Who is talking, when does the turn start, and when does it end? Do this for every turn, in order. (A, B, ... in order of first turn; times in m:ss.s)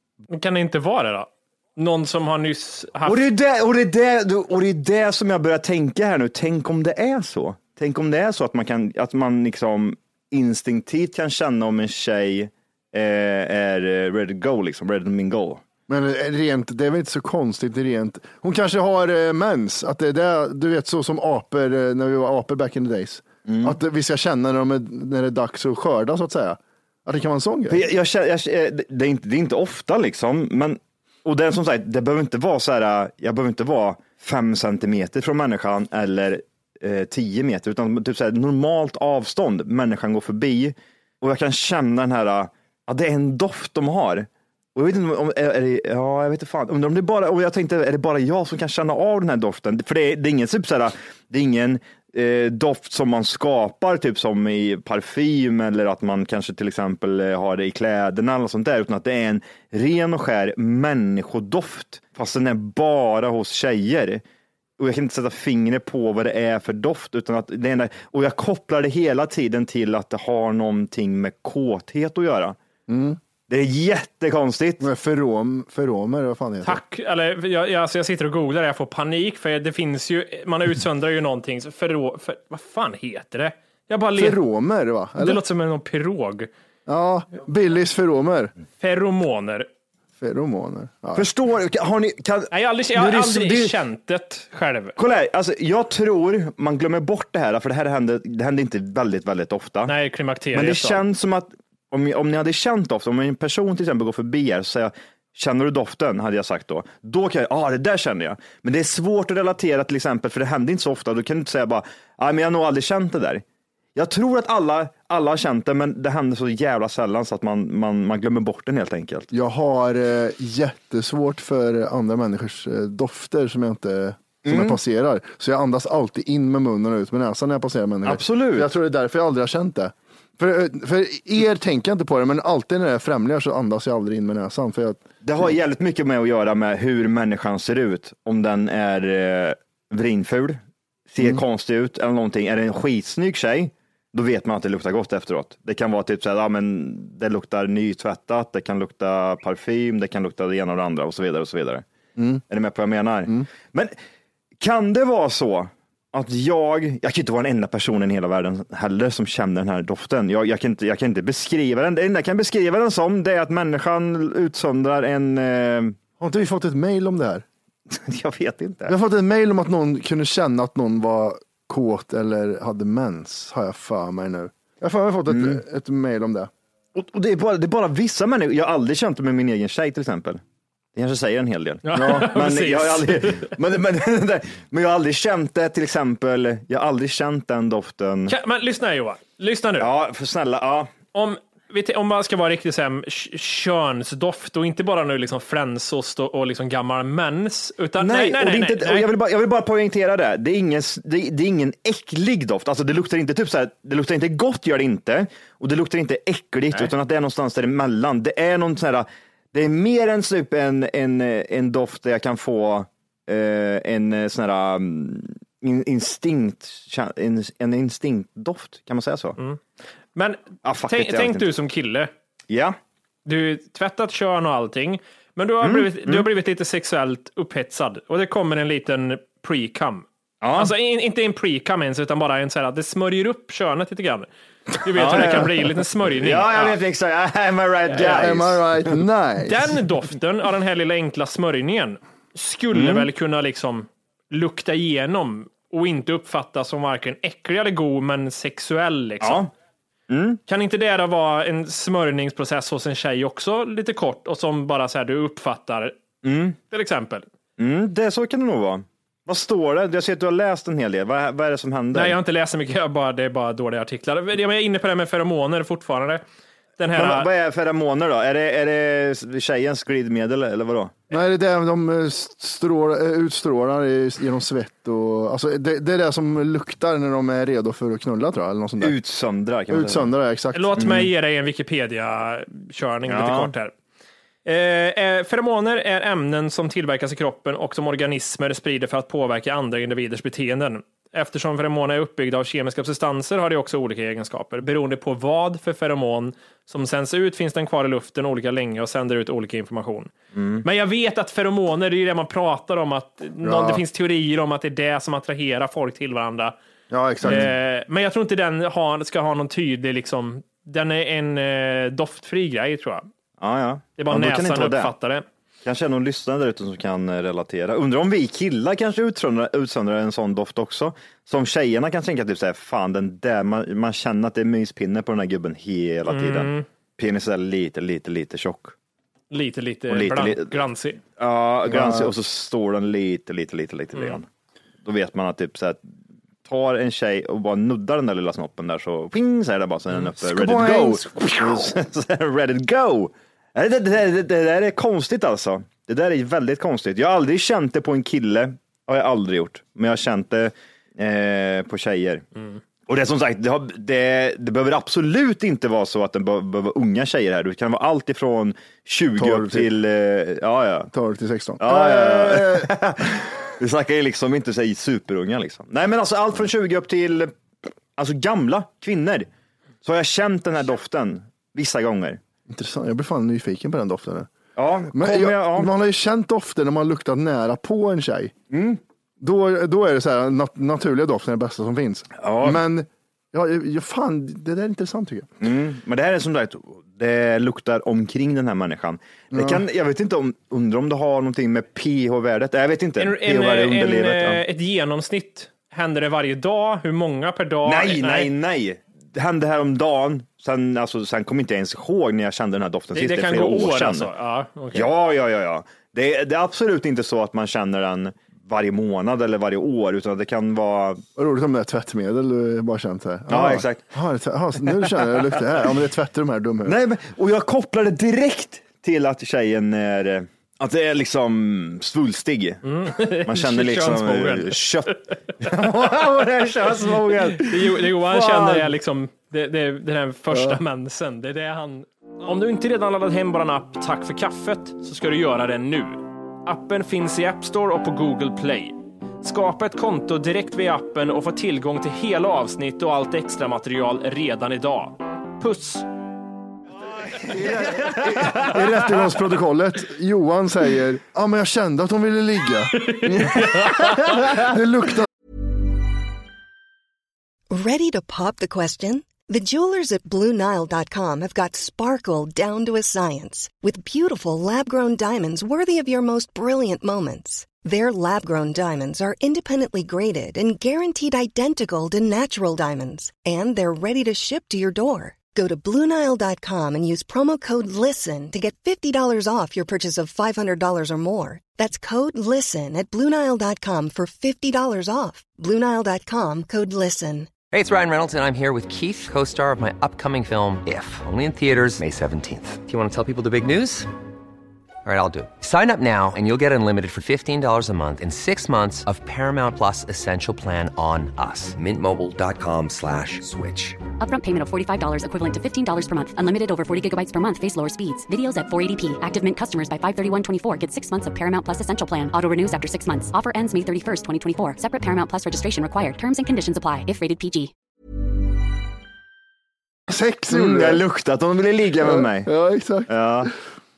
0:00.3-0:03.3 A
0:03.1-0:15.6 B
0:15.9-0:27.9 C
0:23.5-0:23.8 B
0:27.7-1:04.2 B
1:04.8-1:12.6 B
1:12.9-1:13.2 C
1:13.5-1:14.9 B
1:14.8-1:16.8 C
1:16.6-1:24.4 A
1:24.2-1:25.4 C
1:25.2-1:26.5 A
1:26.9-1:28.5 C
1:28.8-1:29.7 A
1:30.2-1:31.3 C
1:31.2-1:33.8 B
1:32.5-1:35.0 A
1:35.0-1:39.9 B
1:39.9-1:41.0 A
1:40.5-1:53.4 B
1:54.0-1:59.3 B
1:59.3-2:15.5 C
2:04.5-2:04.8 B
2:08.0-2:08.7 B
2:15.2-2:31.8 B
2:32.5-2:33.9 B
2:34.6-2:46.0 B
2:46.2-2:47.4 C
2:47.9-2:48.9 B
2:48.9-2:56.5 C
2:55.3-2:55.6 B
2:57.0-3:00.4 B
3:01.0-3:08.4 B
3:01.8-3:03.6 A
3:02.0-3:02.3 C
3:08.3-3:09.9 A
3:09.8-3:10.9 B
3:11.1-3:19.1 A
3:18.0-3:39.4 B
3:40.2-3:42.1 A
3:40.6-3:41.5 B
3:42.5-3:42.8 B
3:43.2-3:54.3 A
3:45.6-3:46.3 B
3:50.4-3:50.7 B
3:54.8-3:56.8 A
3:54.9-3:58.9 B
3:57.9-3:58.3 A
3:58.0-3:59.7 C
3:59.4-4:09.5 A
4:02.7-4:03.1 B
4:09.2-4:09.5 B
4:10.1-4:10.4 B
4:10.5-4:16.0 A
4:16.2-4:16.6 B
4:16.7-4:17.3 A
4:17.6-4:22.2 B
4:21.9-4:26.2 A
4:26.8-4:27.3 A
4:26.9-4:31.0 B
4:31.1-4:39.0 C
4:38.8-4:40.1 B
4:39.7-4:40.7 C
4:40.5-4:43.7 A
4:40.8-4:41.1 B
4:43.1-4:43.5 B
4:44.4-5:00.1 A
5:00.4-5:00.6 B
5:00.6-5:06.6 A
5:03.4-5:03.8 C
5:06.9-5:07.5 C
5:07.2-5:13.1 A
5:07.2-5:07.5 B
5:13.4-5:14.9 B
5:14.0-5:15.2 A
5:15.6-5:28.7 B
5:26.1-5:26.6 A
5:29.3-5:31.0 A
5:29.9-5:30.5 B
5:31.2-5:34.3 B
5:31.7-5:32.1 C
5:34.8-5:35.8 B
5:36.5-5:52.2 B
5:40.2-5:41.8 C
5:52.9-6:00.9 B
5:59.2-5:59.7 C
6:00.9-6:02.7 C
6:01.6-6:07.4 B
6:08.0-6:09.3 B
6:09.8-6:12.2 B
6:12.5-6:14.3 C
6:14.6-6:15.7 B
6:14.9-6:18.3 C
6:18.5-6:18.8 B
6:19.2-6:25.3 C
6:22.2-6:22.6 B
6:25.4-6:34.4 B
6:29.3-6:29.6 C
6:33.0-6:38.3 A
6:37.6-6:44.1 B
6:42.9-6:44.9 A
6:44.7-6:51.0 B
6:51.2-6:56.8 C
6:53.3-6:53.9 B
6:54.7-6:55.3 B
6:56.6-7:02.6 B
7:02.6-7:04.9 A
7:03.2-7:08.7 B
7:06.6-7:25.9 A
7:26.9-7:28.6 B
7:28.0-7:35.1 C
7:32.8-7:34.4 A
7:37.5-8:07.3 D
8:07.5-8:13.9 E
8:14.8-8:23.8 E
8:24.0-8:37.5 F
8:39.9-8:40.8 C
8:40.3-8:42.3 B
8:41.8-8:43.3 C
8:42.9-8:43.3 B